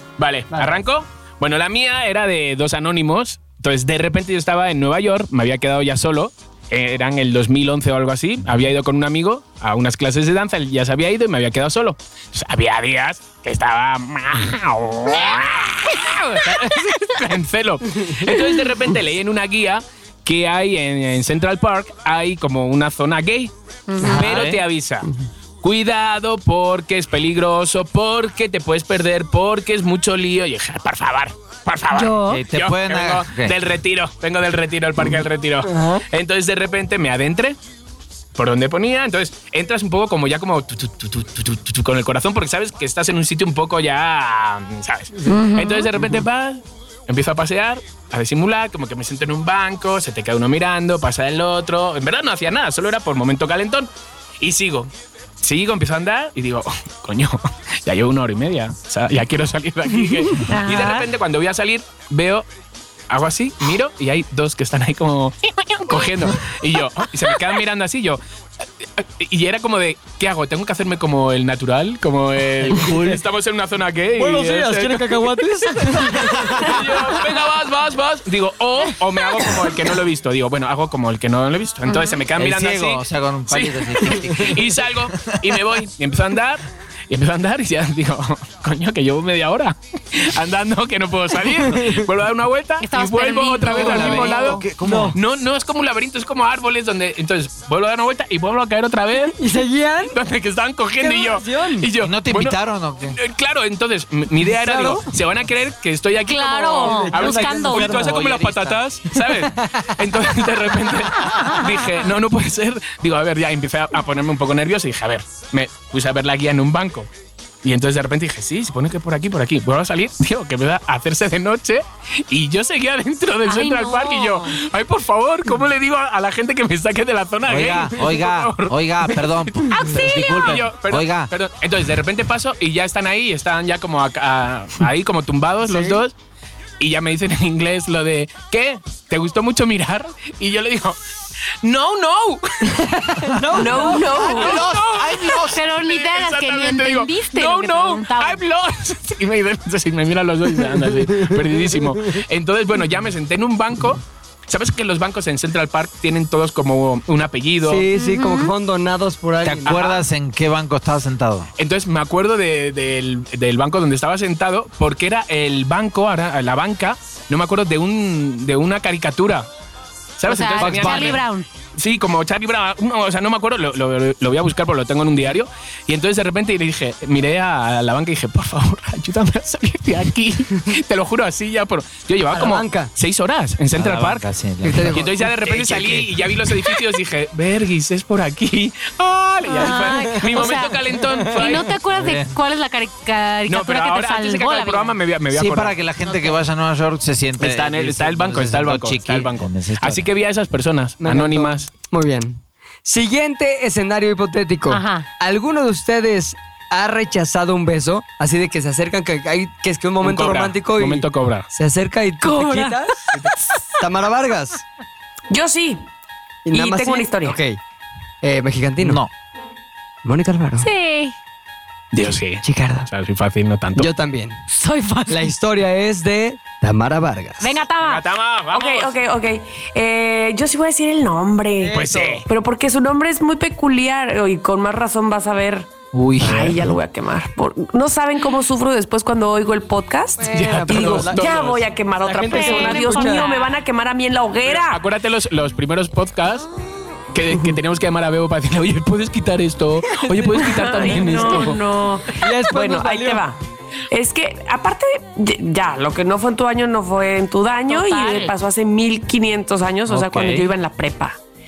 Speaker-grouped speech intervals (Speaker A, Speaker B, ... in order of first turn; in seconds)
Speaker A: 0.2-25.1, 25.6-37.6, 38.4-53.9, 54.4-54.9, 55.4-62.4, 63.1-68.2, 68.8-99.5, 100.1-102.5, 103.2-117.1, 117.6-136.1, 136.8-141.0, 141.6-157.9, 159.7-160.0, 161.6-169.5, 170.2-171.2, 171.8-184.2, 184.8-191.7, 193.5-195.8, 197.4-201.7, 210.0-211.5, 221.9-223.9, 227.8-228.9, 231.7-232.2, 235.9-236.7, 240.2-241.6, 244.4-246.5, 247.1-251.6
Speaker B: 0.5-0.8, 35.6-36.0, 72.7-73.1, 74.2-76.8, 93.7-95.2, 99.3-100.2, 101.0-101.9, 104.4-105.1, 106.8-108.2, 109.2-109.9, 135.7-136.0, 142.8-144.2, 150.7-152.2, 157.6-159.8, 182.3-182.9, 184.6-185.3, 189.8-191.4, 201.0-213.1, 213.8-214.6, 216.4-217.6, 218.2-219.0, 220.0-220.7, 222.4-222.9, 223.8-224.4, 225.1-227.5, 231.6-232.2, 240.2-241.3, 242.0-243.3, 252.2-253.2
Speaker C: 23.9-24.4, 31.9-32.4, 45.2-45.9, 81.8-82.2, 92.8-94.5, 106.3-107.9, 123.4-124.5, 129.9-130.5, 145.4-148.4, 157.9-158.5, 170.3-171.4, 189.5-190.8, 191.3-194.9, 196.0-196.4, 204.7-205.1, 212.2-213.2, 220.6-221.1, 224.5-225.3, 227.4-228.0, 242.2-243.6, 257.7-258.4
Speaker D: 24.1-24.6, 32.2-33.5, 82.4-84.7, 93.8-95.2, 102.0-103.2, 107.8-108.8, 127.5-131.3, 144.3-145.6, 159.4-161.5, 170.6-171.2, 183.8-186.2, 191.9-192.3, 195.3-200.1, 218.8-219.1, 259.9-260.5
Speaker E: 60.5-61.0, 143.5-144.6, 215.3-215.9, 216.5-217.4, 228.5-235.7, 236.2-244.8, 250.3-261.2